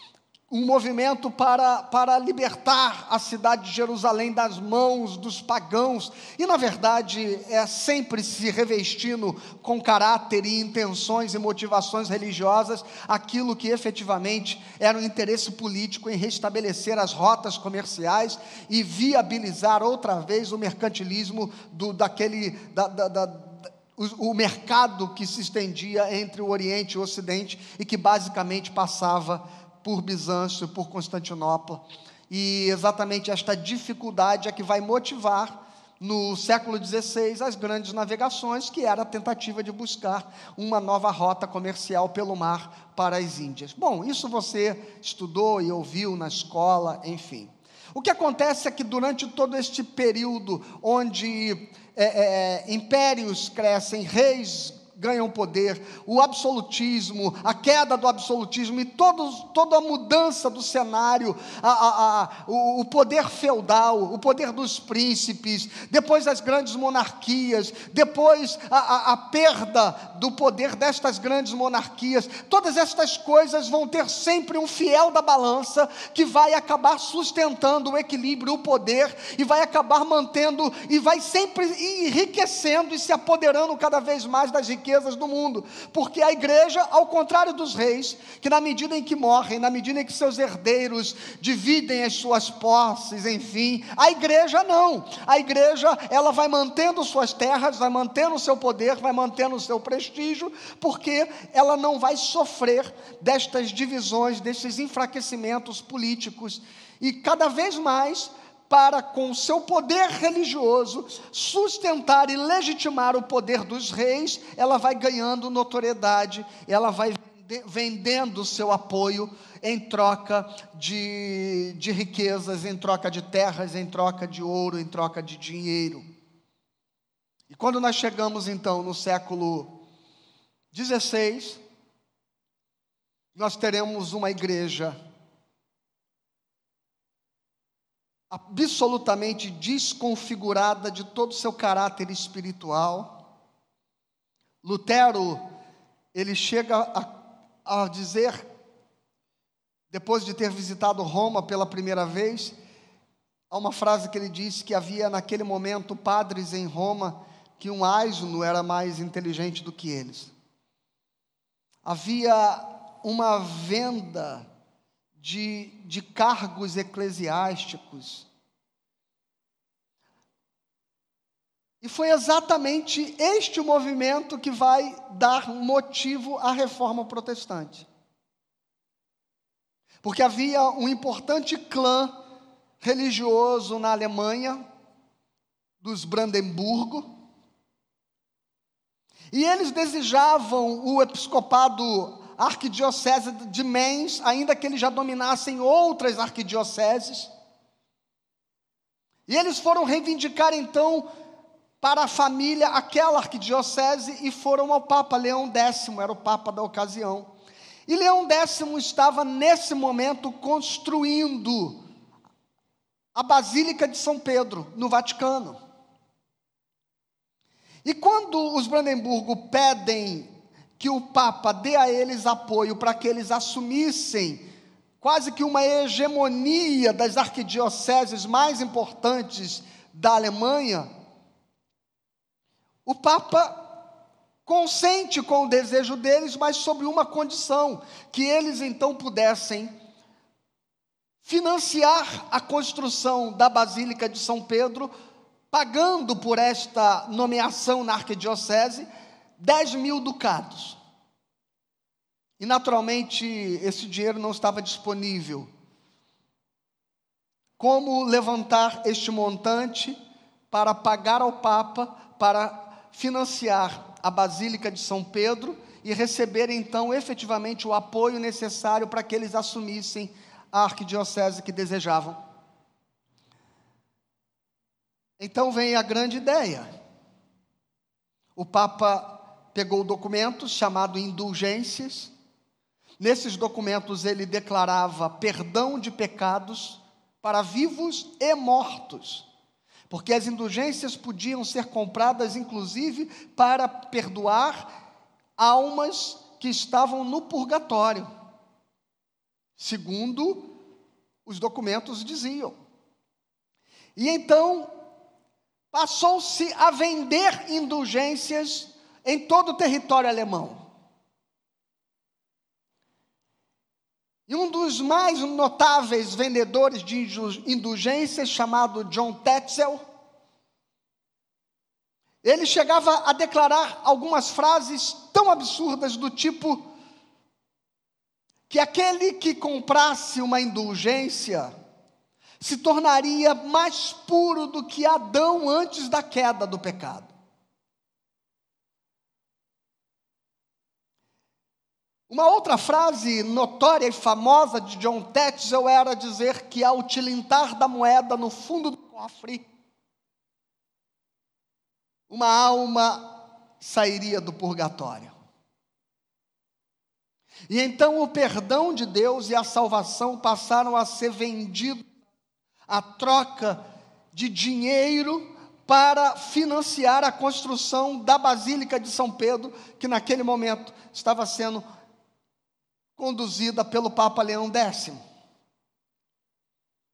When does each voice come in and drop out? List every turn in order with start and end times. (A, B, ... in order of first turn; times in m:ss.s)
0:00.5-2:06.0 A
2:07.5-2:09.8 A
2:10.7-2:11.6 A
2:13.3-2:15.0 A
2:18.3-2:23.2 A
2:24.6-2:25.4 A
2:26.1-2:27.1 A
2:27.6-2:28.4 A
2:29.9-2:32.5 A
2:33.5-2:40.3 A
2:41.8-2:44.5 A
2:45.2-2:48.2 A
2:51.8-2:57.9 A
3:00.0-3:02.2 A
3:02.8-3:04.6 A
3:05.8-3:07.0 A
3:09.3-3:17.3 A
3:19.3-3:21.1 A
3:21.8-3:27.3 A
3:27.9-3:31.8 A
3:33.1-3:35.6 A
3:37.8-3:44.5 A
3:45.0-3:50.9 A
3:52.8-3:53.8 A
3:54.4-3:59.7 A
4:01.2-4:04.9 A
4:05.5-4:08.9 A
4:09.4-4:10.8 A
4:12.4-4:15.5 A
4:17.6-4:20.0 A
4:20.5-4:32.2 A
4:35.2-4:36.7 A
4:38.4-4:42.1 A
4:43.0-4:49.2 A
4:49.9-4:54.7 A
4:55.4-4:58.1 A
4:59.6-5:00.5 A
5:01.2-5:02.5 A
5:04.0-5:04.7 A
5:05.7-5:10.6 A
5:14.3-5:19.8 A
5:22.2-5:26.6 A
5:28.5-5:31.5 A
5:32.4-5:37.1 A
5:42.1-5:49.4 A
5:52.1-5:55.2 A
5:57.5-6:01.9 A
6:02.7-6:11.6 A
6:13.0-6:15.0 A